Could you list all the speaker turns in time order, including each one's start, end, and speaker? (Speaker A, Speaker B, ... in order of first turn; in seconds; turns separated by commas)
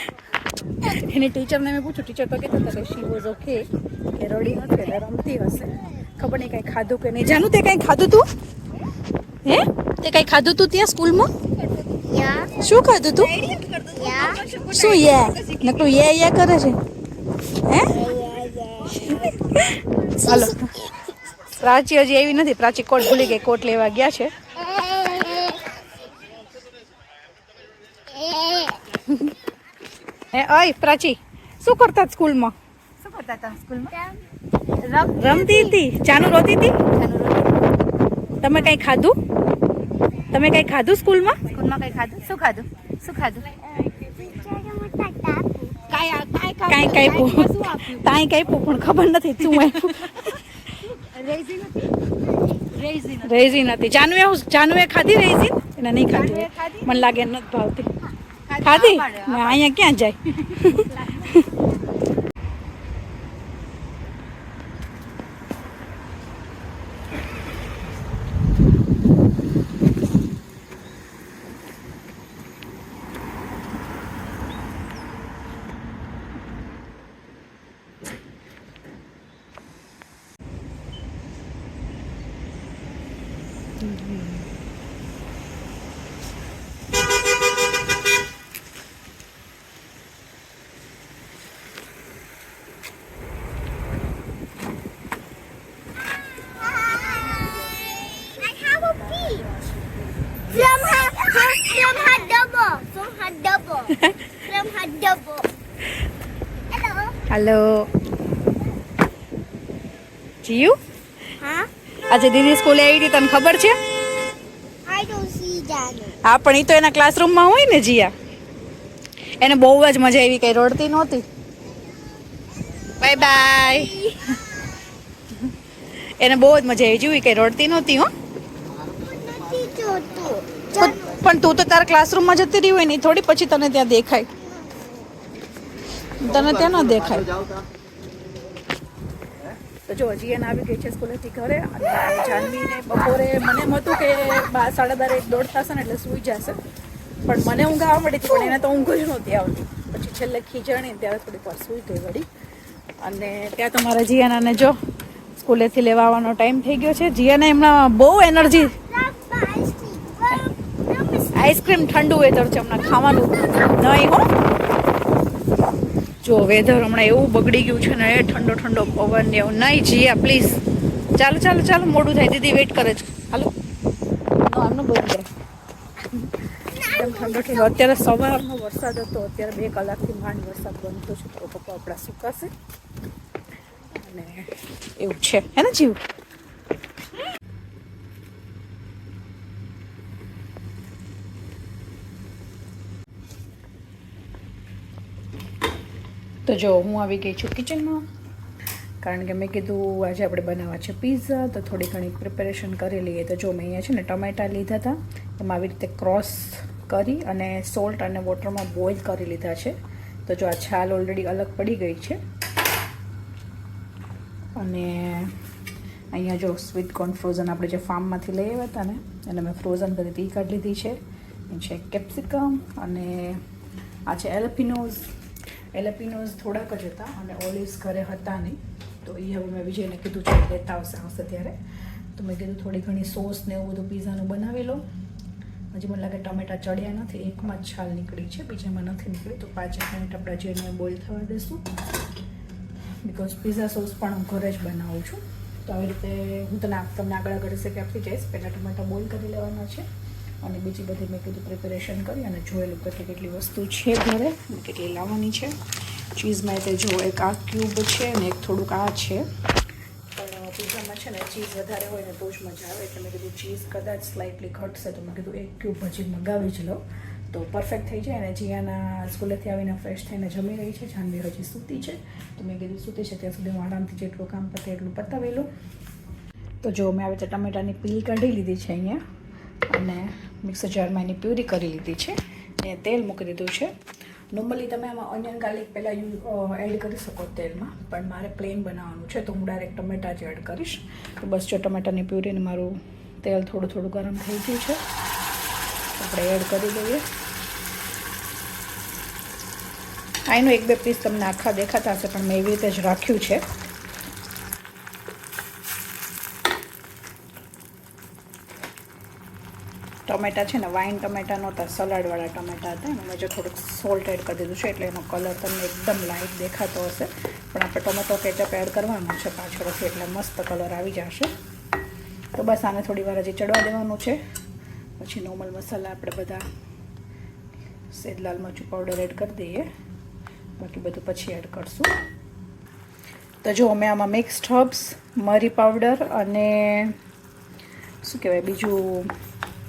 Speaker A: 0.8-8.3, Speaker A: 9.4-11.3, Speaker B: 12.0-12.5, Speaker A: 12.6-13.4, Speaker B: 13.4-14.5, Speaker A: 14.6-16.8, Speaker C: 14.6-15.0, Speaker A: 17.6-17.9, Speaker B: 17.9-19.3, Speaker A: 19.0-20.7, Speaker B: 20.2-20.5, Speaker A: 21.6-24.3, Speaker B: 24.7-25.5, Speaker B: 28.2-28.8, Speaker A: 30.3-32.5, Speaker C: 33.0-33.9, Speaker C: 34.8-35.3, Speaker A: 35.1-36.8, Speaker B: 35.3-35.7, Speaker C: 36.9-37.5, Speaker A: 38.4-39.1, Speaker A: 40.3-41.4, Speaker C: 41.5-43.5, Speaker B: 43.7-45.9, Speaker C: 45.9-48.0, Speaker A: 46.7-50.4, Speaker C: 49.5-50.0, Speaker C: 50.8-51.9, Speaker C: 52.7-53.3, Speaker A: 53.2-57.9, Speaker C: 56.1-57.0, Speaker C: 58.5-59.6, Speaker A: 58.6-61.4, Speaker C: 60.5-61.4, Speaker A: 83.8-84.4, Speaker B: 96.7-99.5, Speaker B: 100.5-105.5, Speaker B: 106.7-107.2, Speaker A: 107.3-107.9, Speaker A: 110.4-110.8, Speaker B: 111.4-111.7, Speaker A: 112.1-113.8, Speaker B: 114.8-116.2, Speaker A: 116.2-118.1, Speaker A: 119.4-121.2, Speaker A: 123.0-123.9, Speaker B: 123.1-124.2, Speaker A: 126.2-128.1, Speaker B: 128.8-131.2, Speaker A: 130.8-134.3, Speaker A: 136.2-137.4, Speaker A: 139.8-146.6, Speaker A: 147.2-152.2, Speaker A: 153.0-154.8, Speaker A: 155.4-158.7, Speaker B: 158.7-161.9, Speaker A: 161.3-164.3, Speaker B: 162.8-163.8, Speaker A: 166.2-170.6, Speaker A: 171.1-173.5, Speaker A: 174.4-175.3, Speaker B: 176.7-178.1, Speaker A: 176.8-182.5, Speaker A: 183.9-186.0, Speaker A: 196.4-198.0, Speaker A: 199.0-209.8, Speaker A: 210.3-212.2, Speaker A: 214.6-215.3, Speaker A: 216.1-221.0, Speaker A: 221.5-223.4, Speaker A: 224.1-225.1, Speaker A: 225.7-231.5, Speaker A: 232.2-234.8, Speaker A: 235.7-241.6, Speaker A: 243.0-249.8, Speaker A: 250.4-255.5, Speaker A: 256.1-259.2, Speaker A: 260.1-266.8, Speaker A: 267.3-275.5, Speaker A: 276.6-279.0, Speaker A: 279.7-283.7, Speaker A: 284.3-294.8, Speaker A: 296.0-297.0, Speaker A: 300.3-303.4, Speaker A: 310.1-321.3, Speaker A: 322.4-324.2, Speaker A: 325.0-326.4, Speaker A: 327.9-329.7, Speaker A: 330.6-331.9, Speaker A: 333.4-336.9, Speaker A: 338.0-339.1